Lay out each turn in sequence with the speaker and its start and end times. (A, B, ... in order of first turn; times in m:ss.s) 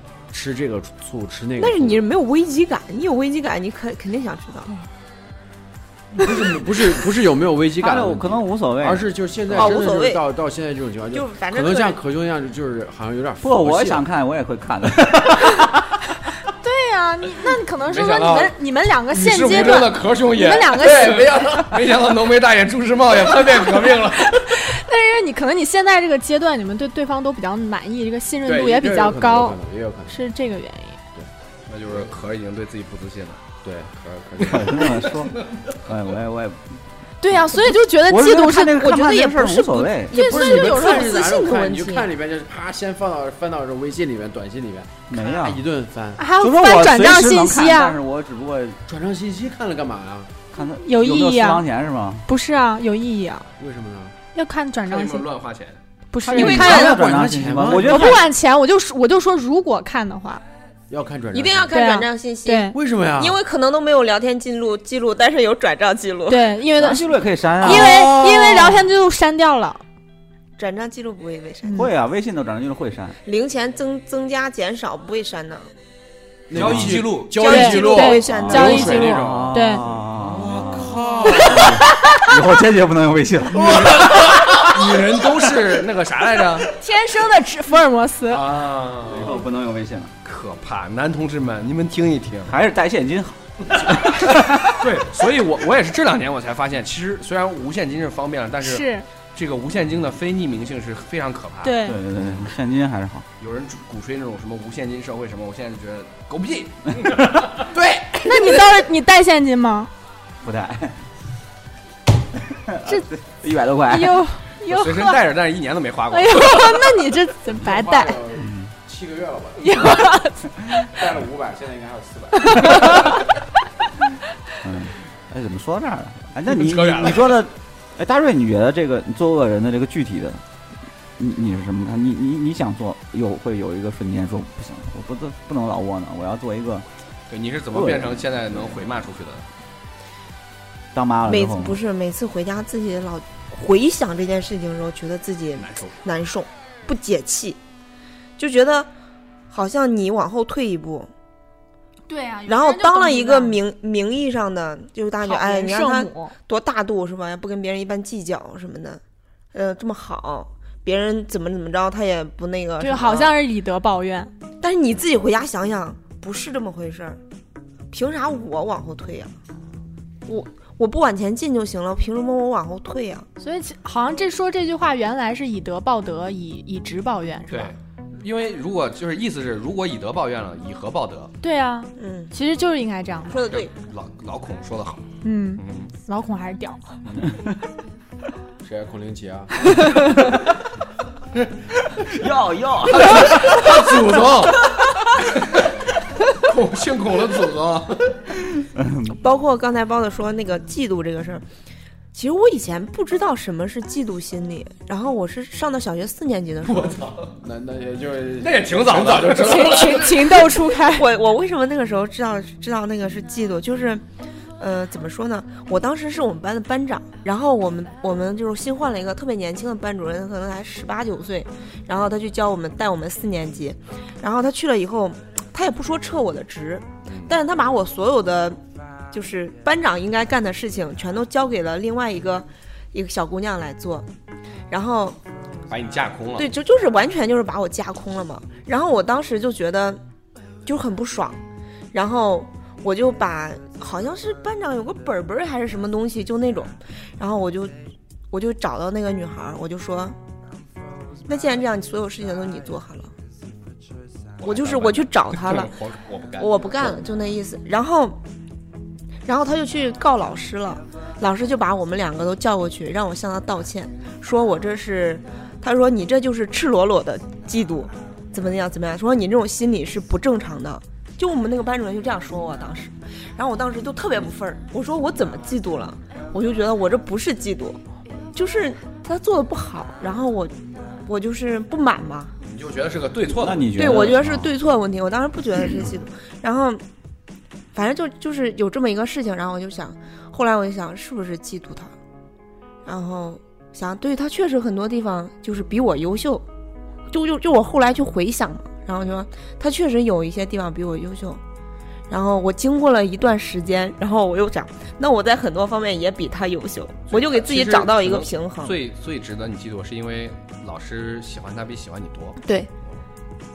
0:00.3-0:02.0 A
0:01.6-0:04.7 B
0:06.1-0:14.0 A
0:07.8-0:09.8 C
0:09.5-0:10.2 B
0:11.1-0:12.0 B
0:13.4-0:15.7 C
0:16.5-0:21.6 D
0:17.9-0:18.5 E
0:19.1-0:24.4 E
0:20.8-0:21.7 A
0:23.5-0:31.0 D
0:28.4-0:30.2 A
0:31.7-0:33.5 E
0:31.9-0:32.1 A
0:33.6-0:34.9 A
0:34.4-0:36.8 C
0:34.7-0:35.4 E
0:37.2-0:41.3 D
0:37.5-0:40.2 C
0:40.1-0:42.1 B
0:40.1-0:46.3 A
0:45.1-0:45.6 C
0:46.2-0:48.0 D
0:46.4-0:48.8 C
0:48.9-0:50.4 A
0:50.5-0:52.2 C
0:50.8-0:51.6 D
0:52.3-0:53.5 D
0:53.6-0:54.2 A
0:54.3-0:55.3 D
0:54.8-0:55.8 E
0:56.1-0:57.0 D
0:56.2-0:58.3 C
0:56.3-0:58.2 A
0:56.4-0:56.8 B
0:57.7-1:00.4 D
1:00.9-1:01.7 A
1:01.3-1:06.5 B
1:01.7-1:02.8 D
1:02.7-1:03.4 A
1:06.3-1:07.1 D
1:06.7-1:08.8 C
1:07.6-1:09.8 D
1:07.6-1:08.2 B
1:10.6-1:11.9 B
1:11.7-1:13.2 C
1:13.2-1:15.7 B
1:16.5-1:21.8 A
1:16.5-1:17.5 E
1:16.5-1:17.0 C
1:17.3-1:19.2 B
1:17.4-1:19.8 D
1:18.3-1:24.7 C
1:21.2-1:21.8 D
1:23.6-1:26.7 E
1:26.8-1:28.4 D
1:28.3-1:29.4 E
1:29.0-1:30.1 C
1:30.2-1:32.6 E
1:32.5-1:34.8 C
1:33.8-1:41.8 E
1:38.6-1:39.0 D
1:41.6-1:42.0 D
1:41.8-1:43.3 C
1:43.4-1:47.7 E
1:47.8-1:48.3 A
1:48.2-1:49.9 D
1:50.4-1:51.0 C
1:52.3-1:54.2 C
1:53.8-1:55.2 D
1:54.6-1:56.8 E
1:56.1-1:58.2 D
1:57.5-2:00.2 A
1:58.4-1:58.7 C
1:59.6-2:00.4 D
2:00.9-2:03.1 A
2:02.4-2:03.2 D
2:04.6-2:10.4 C
2:06.5-2:07.3 E
2:11.2-2:16.8 C
2:17.3-2:19.4 E
2:17.7-2:18.8 C
2:20.9-2:21.8 C
2:21.2-2:27.6 B
2:25.6-2:26.0 E
2:28.4-2:28.9 B
2:29.5-2:31.1 B
2:32.1-2:33.6 D
2:32.4-2:39.0 B
2:35.2-2:36.3 D
2:39.5-2:43.3 B
2:42.8-2:44.3 D
2:44.6-2:47.2 B
2:47.9-2:49.4 B
2:50.2-2:53.3 B
2:53.4-2:57.7 D
2:57.5-3:01.3 E
3:01.4-3:03.4 D
3:02.0-3:02.3 B
3:03.3-3:03.7 B
3:03.4-3:05.0 E
3:05.2-3:07.0 D
3:05.6-3:05.9 E
3:08.6-3:10.2 A
3:09.7-3:10.1 D
3:12.0-3:14.0 C
3:12.9-3:15.8 E
3:16.3-3:18.2 E
3:18.6-3:19.2 C
3:19.1-3:21.4 B
3:22.1-3:27.0 B
3:26.6-3:27.3 E
3:27.4-3:30.0 A
3:28.4-3:30.5 E
3:29.3-3:31.1 D
3:30.8-3:34.0 B
3:34.6-3:54.1 B
3:54.7-3:55.2 B
3:55.7-3:56.5 E
3:56.4-4:00.0 B
4:00.6-4:01.4 B
4:01.9-4:07.7 B
4:08.3-4:10.2 B
4:11.3-4:13.1 B
4:14.4-4:17.0 E
4:14.4-4:15.8 B
4:16.4-4:18.2 B
4:19.2-4:37.8 B
4:38.3-4:42.3 B
4:42.4-4:44.1 E
4:43.3-4:44.5 C
4:43.7-4:46.8 B
4:47.7-4:51.9 B
4:52.8-4:56.4 B
4:57.1-5:01.4 B
5:02.1-5:08.8 B
5:07.1-5:12.4 E
5:12.4-5:12.7 D